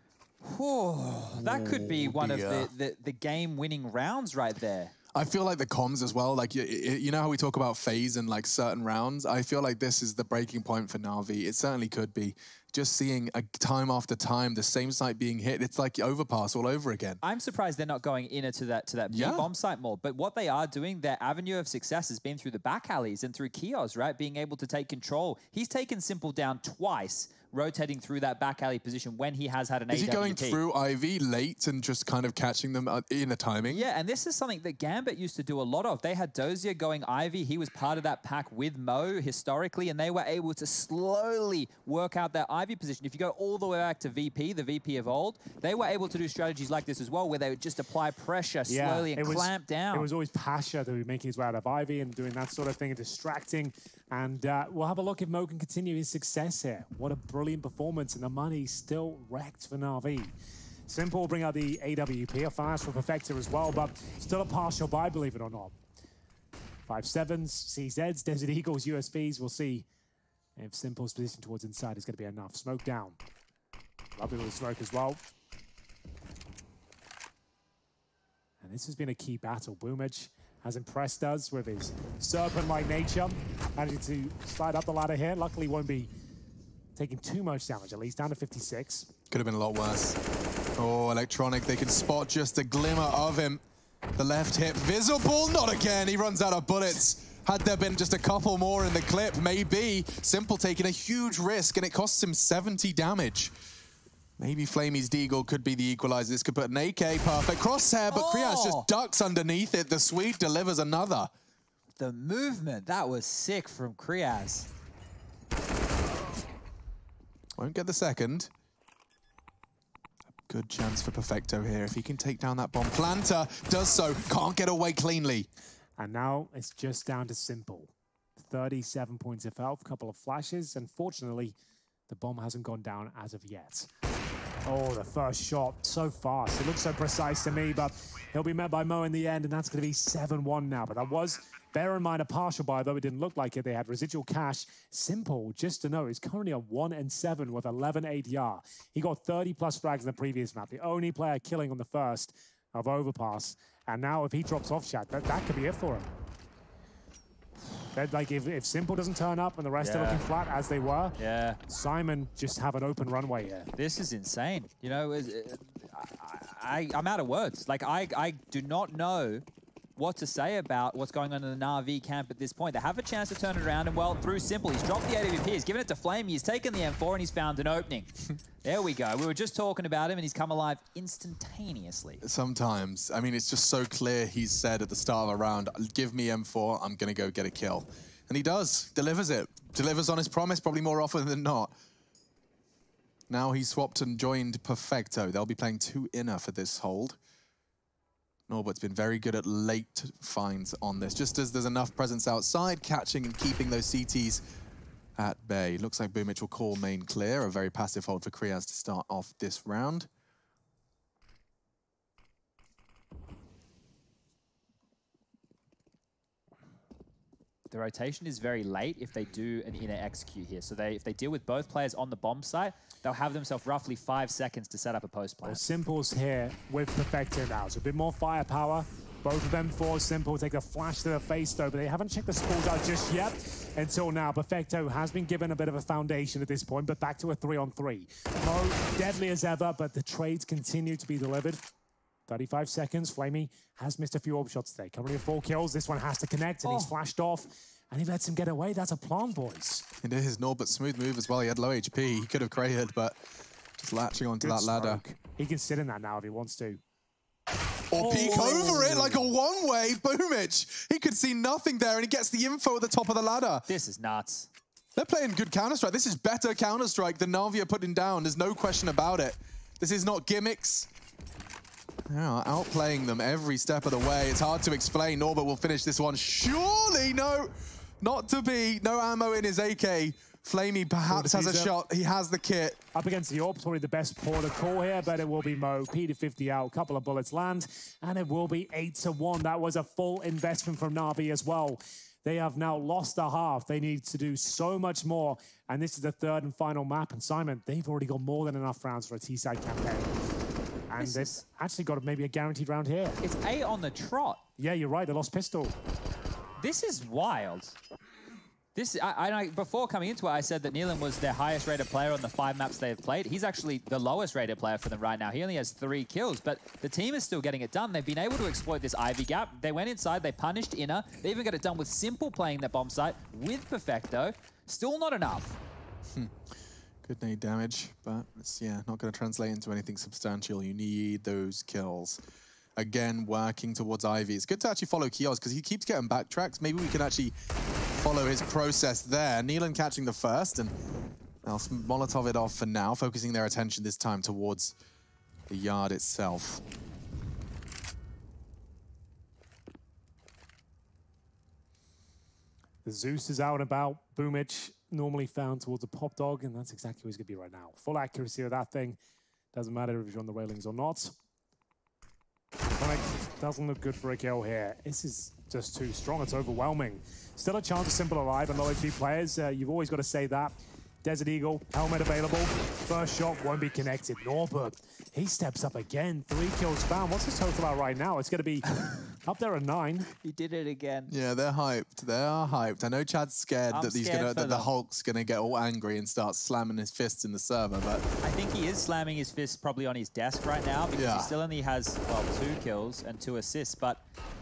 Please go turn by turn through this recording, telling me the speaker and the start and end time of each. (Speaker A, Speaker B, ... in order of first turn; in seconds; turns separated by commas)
Speaker A: 0.4-4.9, Speaker B: 1.3-2.7, Speaker B: 5.1-17.2, Speaker A: 17.2-30.6, Speaker B: 19.1-19.5, Speaker B: 29.9-33.9, Speaker A: 33.7-50.1, Speaker C: 48.7-60.3, Speaker C: 60.9-65.8, Speaker C: 66.9-69.9, Speaker C: 70.6-73.2, Speaker C: 74.2-75.2, Speaker C: 78.6-86.1, Speaker C: 87.0-89.1, Speaker B: 89.3-90.2, Speaker B: 90.8-93.6, Speaker B: 94.2-103.5, Speaker B: 104.4-111.3, Speaker A: 108.1-108.9, Speaker A: 112.0-114.7, Speaker B: 117.6-118.5, Speaker B: 120.5-125.5, Speaker C: 126.0-131.6, Speaker C: 132.1-133.9, Speaker C: 134.7-156.1, Speaker C: 157.9-161.2, Speaker A: 159.8-160.2, Speaker A: 161.2-161.6, Speaker C: 161.7-163.7, Speaker A: 163.8-169.4, Speaker A: 170.0-178.1, Speaker A: 178.6-182.2, Speaker B: 182.2-191.7, Speaker B: 193.3-197.2, Speaker B: 198.5-204.4, Speaker B: 205.2-210.1, Speaker A: 217.7-225.6, Speaker C: 225.4-241.7, Speaker C: 242.3-249.9, Speaker A: 246.6-246.9, Speaker B: 250.0-253.2, Speaker B: 253.8-255.0, Speaker C: 254.4-256.8, Speaker B: 257.9-263.7, Speaker C: 257.9-259.3, Speaker A: 263.7-264.5, Speaker B: 265.0-270.9, Speaker B: 272.1-282.8, Speaker C: 281.1-281.7, Speaker C: 282.9-300.1, Speaker C: 300.9-303.2, Speaker A: 301.0-301.4, Speaker A: 303.2-304.4, Speaker C: 304.6-305.8, Speaker A: 306.6-307.8, Speaker A: 308.8-325.6, Speaker B: 326.1-332.2, Speaker B: 332.8-337.3, Speaker B: 337.9-340.7, Speaker B: 341.4-344.8, Speaker B: 345.5-346.6, Speaker C: 352.9-359.0, Speaker C: 359.5-361.1, Speaker C: 362.7-380.1, Speaker A: 380.2-381.1, Speaker B: 381.1-388.1, Speaker A: 383.7-384.7, Speaker A: 388.2-394.0, Speaker B: 390.9-391.3